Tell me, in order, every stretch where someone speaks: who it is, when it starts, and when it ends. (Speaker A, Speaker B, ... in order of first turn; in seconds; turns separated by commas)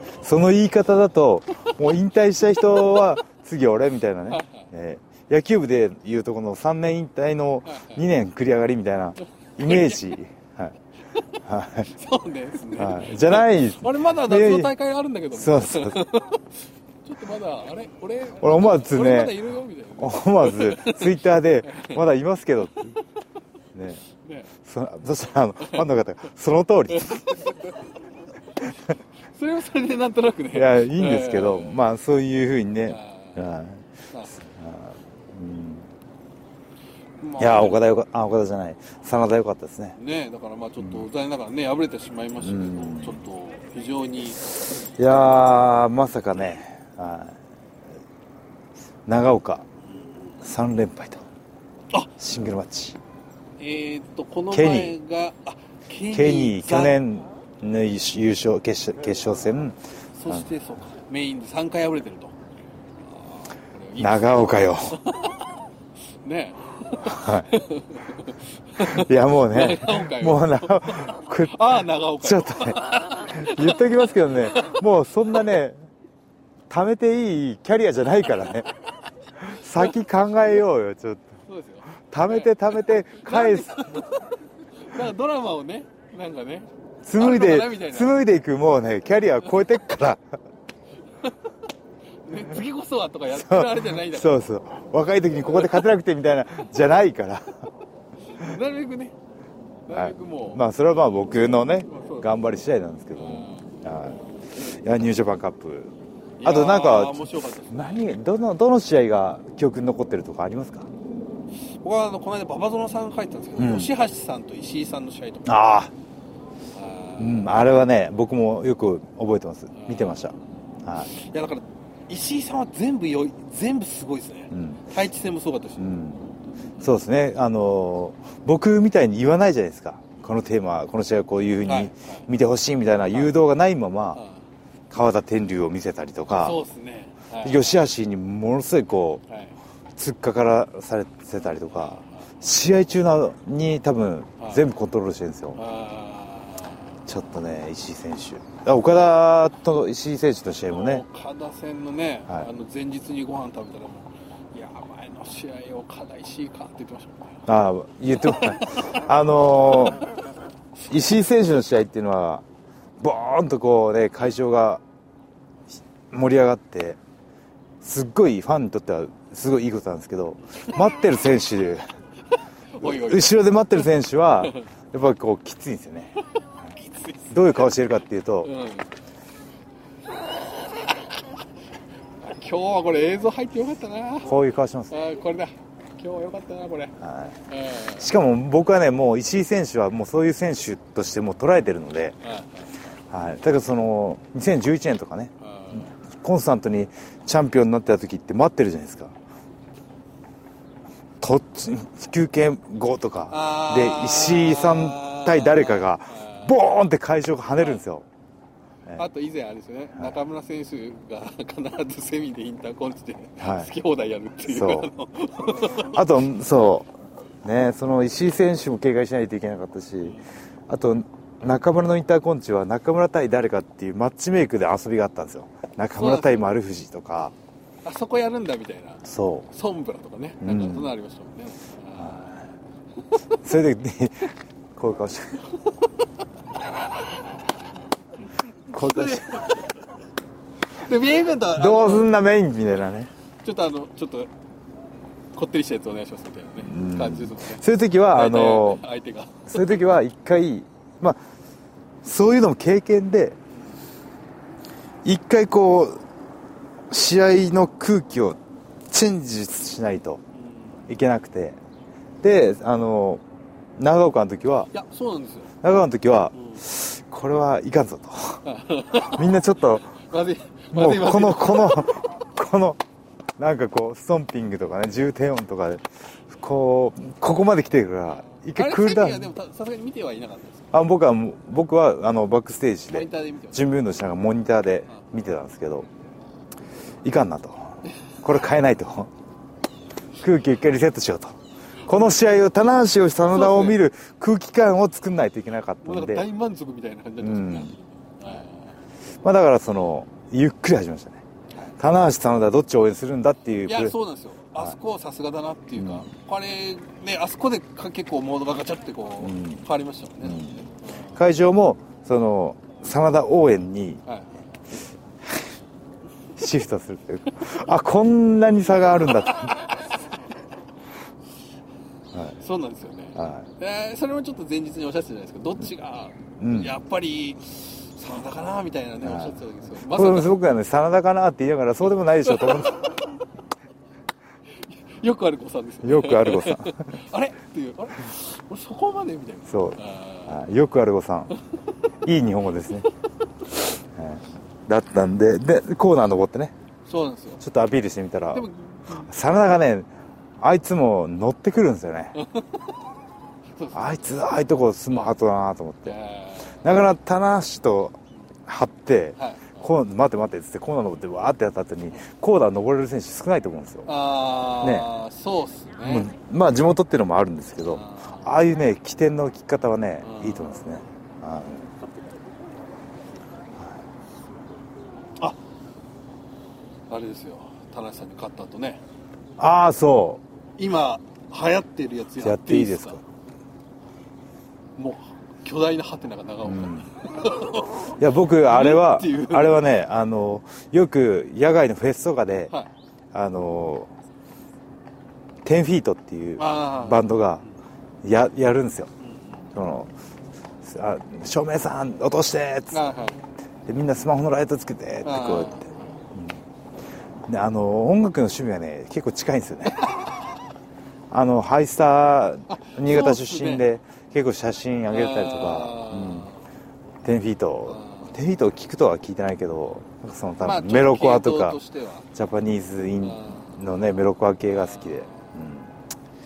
Speaker A: 0.2-10.8, Speaker B: 4.3-4.7, Speaker B: 7.7-8.0, Speaker B: 9.6-10.1, Speaker A: 11.4-11.9, Speaker B: 11.8-16.5, Speaker A: 12.8-14.7, Speaker A: 15.3-16.0, Speaker B: 17.1-22.0, Speaker A: 18.4-19.4, Speaker A: 20.0-23.0, Speaker A: 23.7-24.0, Speaker B: 24.1-24.5, Speaker A: 24.6-27.4, Speaker B: 26.9-27.8, Speaker B: 29.3-31.8, Speaker A: 30.5-35.9, Speaker B: 32.9-33.5, Speaker B: 37.2-37.8, Speaker A: 37.4-40.0, Speaker B: 40.0-44.5, Speaker A: 42.4-43.2, Speaker A: 45.0-47.4, Speaker A: 49.1-49.7, Speaker A: 50.4-51.2, Speaker A: 52.2-53.0, Speaker B: 53.6-57.0, Speaker A: 54.5-55.0, Speaker A: 56.1-59.8, Speaker B: 60.2-62.4, Speaker B: 63.5-65.5, Speaker A: 64.0-65.0, Speaker B: 66.2-74.8, Speaker A: 67.0-67.5, Speaker A: 68.8-75.8, Speaker A: 76.7-78.7, Speaker A: 79.4-81.3, Speaker B: 81.5-88.2, Speaker A: 82.1-84.0, Speaker A: 87.0-90.2, Speaker B: 92.2-94.4, Speaker A: 93.3-97.6, Speaker B: 98.3-99.2, Speaker B: 99.9-100.6, Speaker A: 99.9-110.9, Speaker B: 101.8-102.3, Speaker B: 103.2-103.7, Speaker B: 106.4-108.1, Speaker B: 111.8-115.6, Speaker A: 113.6-113.9, Speaker A: 115.5-115.9, Speaker B: 116.7-117.5, Speaker A: 117.2-121.1, Speaker B: 119.7-120.3, Speaker B: 121.0-126.1, Speaker A: 124.5-124.8, Speaker A: 125.8-126.2, Speaker A: 126.8-134.2, Speaker B: 131.7-132.3, Speaker B: 134.2-134.4, Speaker A: 134.9-136.6, Speaker B: 136.4-137.8, Speaker A: 137.4-139.2, Speaker A: 140.0-145.6, Speaker B: 141.6-142.2, Speaker B: 145.6-146.8, Speaker A: 147.1-151.0, Speaker B: 150.7-157.4, Speaker A: 157.5-160.0, Speaker B: 158.2-159.0, Speaker A: 160.9-162.4, Speaker A: 163.0-164.8, Speaker A: 166.1-167.0, Speaker A: 167.8-171.8, Speaker B: 172.7-173.4, Speaker A: 172.8-176.1, Speaker B: 176.8-177.7, Speaker A: 177.3-178.5, Speaker B: 178.4-178.9, Speaker B: 180.8-181.1, Speaker B: 182.2-184.4, Speaker A: 184.2-184.9, Speaker B: 184.9-186.9, Speaker A: 187.0-187.4, Speaker B: 187.5-188.1, Speaker A: 188.0-192.2, Speaker B: 192.2-192.7, Speaker A: 193.1-195.3, Speaker B: 195.4-195.9, Speaker A: 196.1-199.2, Speaker A: 201.2-208.1, Speaker B: 203.3-206.5, Speaker B: 207.6-207.8, Speaker B: 209.0-216.0, Speaker A: 213.4-213.7, Speaker A: 214.5-214.9, Speaker A: 215.6-220.2, Speaker A: 220.7-227.3, Speaker B: 226.0-226.5, Speaker B: 227.8-232.5, Speaker A: 229.1-229.5, Speaker A: 230.4-230.9, Speaker A: 233.4-235.4, Speaker B: 238.7-239.7, Speaker A: 238.7-239.5, Speaker B: 240.7-242.1, Speaker A: 241.5-243.1, Speaker B: 243.4-244.3, Speaker B: 245.3-249.8, Speaker A: 246.6-248.8, Speaker A: 249.5-251.2, Speaker A: 252.0-253.4, Speaker A: 255.0-256.0, Speaker A: 256.9-258.4, Speaker A: 258.9-260.2, Speaker B: 260.4-260.8, Speaker A: 260.9-261.6, Speaker A: 262.2-263.2, Speaker A: 263.8-264.7, Speaker B: 264.7-265.6, Speaker A: 265.6-269.9, Speaker B: 266.4-266.6, Speaker B: 268.4-269.3, Speaker B: 269.9-272.0, Speaker A: 270.7-272.8, Speaker A: 273.4-279.3, Speaker B: 278.6-280.7, Speaker A: 280.7-285.9, Speaker B: 282.9-283.6, Speaker A: 287.0-289.1, Speaker A: 290.2-296.3, Speaker B: 293.3-293.8, Speaker B: 295.8-298.7, Speaker A: 297.2-297.7, Speaker A: 299.2-301.2, Speaker A: 301.8-304.0, Speaker B: 303.6-311.2, Speaker A: 305.8-306.1, Speaker A: 309.2-309.6, Speaker A: 310.2-310.6, Speaker A: 311.1-314.0, Speaker A: 316.4-319.7, Speaker B: 319.1-319.9, Speaker B: 322.4-330.4, Speaker A: 323.2-323.4, Speaker A: 326.4-326.8, Speaker A: 329.0-333.0, Speaker B: 332.3-332.9, Speaker B: 334.6-340.4, Speaker A: 335.8-336.8, Speaker A: 339.5-341.3, Speaker A: 342.0-342.9, Speaker A: 343.9-346.5, Speaker B: 346.9-347.4, Speaker A: 347.4-348.5, Speaker B: 348.3-349.1, Speaker A: 349.0-349.9, Speaker A: 350.4-352.2, Speaker B: 352.1-352.6, Speaker B: 353.6-354.1, Speaker A: 353.7-356.0, Speaker B: 355.9-356.6, Speaker A: 356.6-363.9, Speaker B: 359.2-359.7, Speaker B: 363.9-366.1, Speaker A: 364.6-364.9, Speaker A: 365.8-371.7, Speaker B: 367.7-368.4, Speaker B: 370.0-370.6, Speaker B: 376.9-378.8, Speaker A: 379.4-380.2, Speaker B: 380.6-383.0, Speaker A: 382.2-383.0, Speaker B: 384.8-389.7, Speaker A: 386.4-386.9, Speaker A: 387.9-392.5, Speaker A: 393.1-393.9, Speaker A: 395.4-397.4, Speaker B: 396.4-397.1, Speaker A: 398.0-398.9, Speaker B: 399.0-399.5, Speaker A: 399.5-399.9, Speaker A: 400.6-402.9, Speaker B: 402.7-403.2, Speaker A: 403.7-406.4, Speaker B: 405.0-405.8, Speaker A: 407.3-409.9, Speaker B: 409.8-410.0, Speaker A: 411.1-416.3, Speaker B: 412.5-413.6, Speaker B: 414.9-416.4, Speaker A: 417.0-421.6, Speaker B: 417.7-418.1, Speaker B: 420.4-422.1, Speaker A: 422.1-425.8, Speaker B: 423.0-423.6, Speaker B: 424.6-425.2